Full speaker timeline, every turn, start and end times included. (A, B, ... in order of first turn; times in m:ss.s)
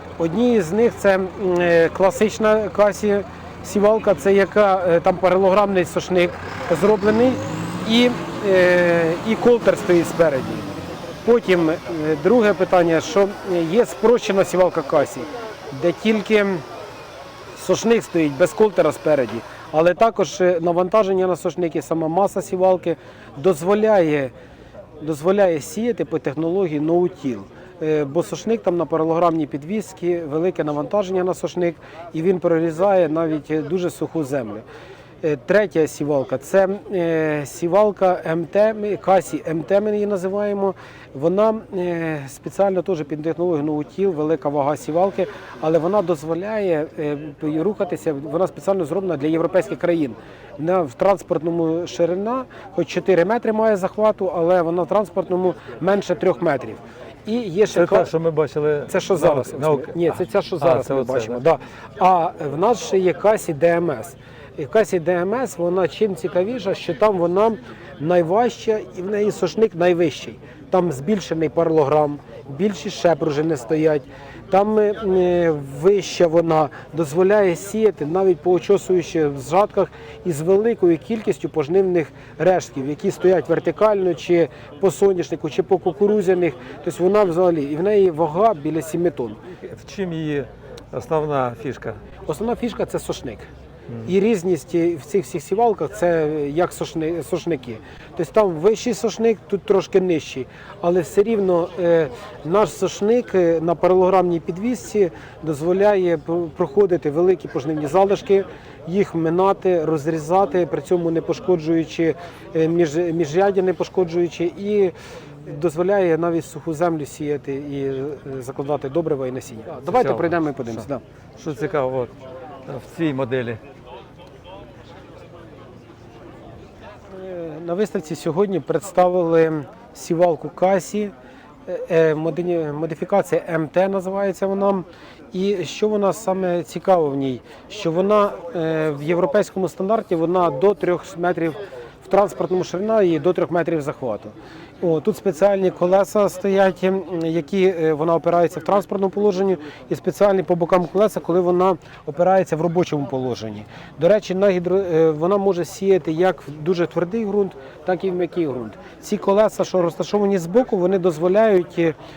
0:00.2-0:16.6 A
0:17.5-0:24.3 A
0:25.0-0:34.6 A
0:35.2-0:58.1 A
0:57.7-1:01.4 B
0:58.9-1:29.4 A
1:29.6-1:32.0 B
1:32.3-1:33.5 A
1:34.1-2:01.0 A
1:59.8-2:00.9 B
2:01.4-2:02.1 B
2:02.7-2:03.6 B
2:07.1-2:11.1 A
2:11.7-2:42.0 A